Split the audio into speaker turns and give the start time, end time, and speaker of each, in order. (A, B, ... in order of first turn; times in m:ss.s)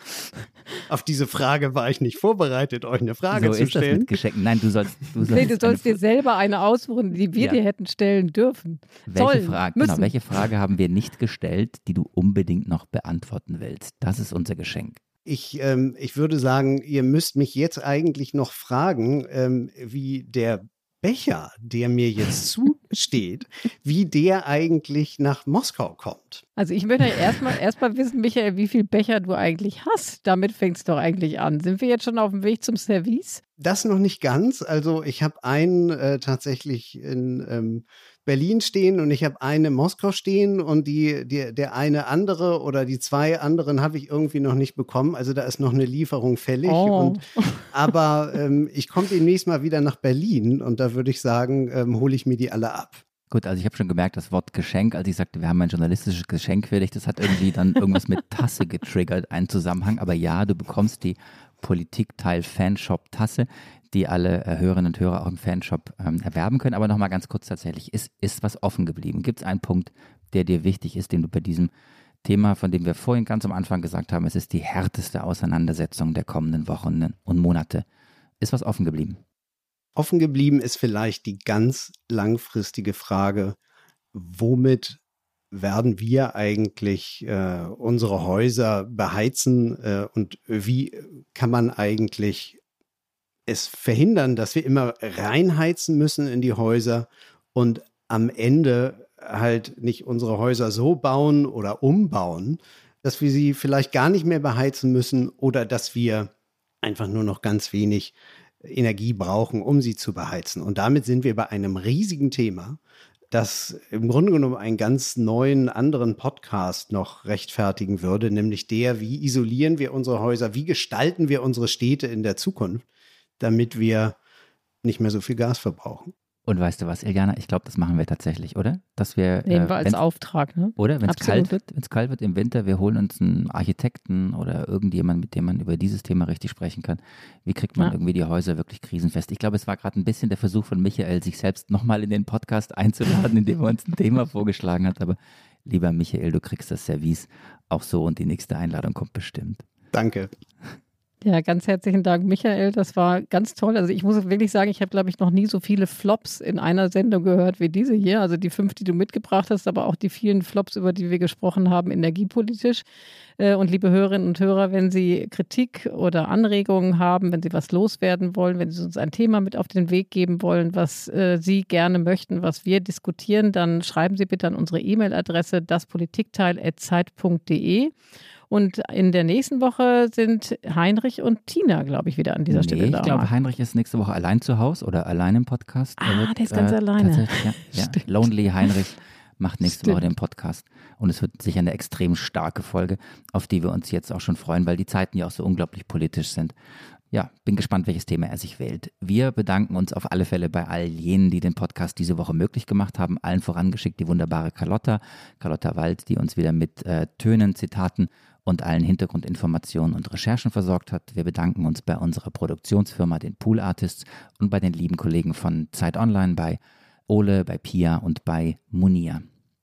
0:00.9-0:04.1 A
0:03.3-0:06.0 B
0:05.3-0:10.1 C
0:09.1-0:15.0 B
0:15.2-0:26.4 A
0:26.6-0:33.4 C
0:33.6-0:53.0 A
0:46.6-0:47.7 C
0:53.3-1:11.7 B
1:12.2-1:17.8 B
1:18.4-1:19.2 B
1:20.0-1:23.6 A
1:24.1-1:25.0 A
1:25.5-1:32.6 A
1:33.5-1:46.3 A
1:46.8-1:52.8 A
1:53.3-2:02.8 A
2:03.4-2:04.2 A
2:04.8-2:06.1 A
2:06.4-2:10.0 B
2:09.5-2:11.6 C
2:10.8-2:29.6 B
2:29.9-2:30.3 A
2:31.2-2:42.8 C
2:43.4-2:57.9 C
2:58.5-3:03.3 C
3:02.5-3:16.5 B
3:06.0-3:08.3 C
3:09.6-3:10.1 C
3:17.1-3:39.2 B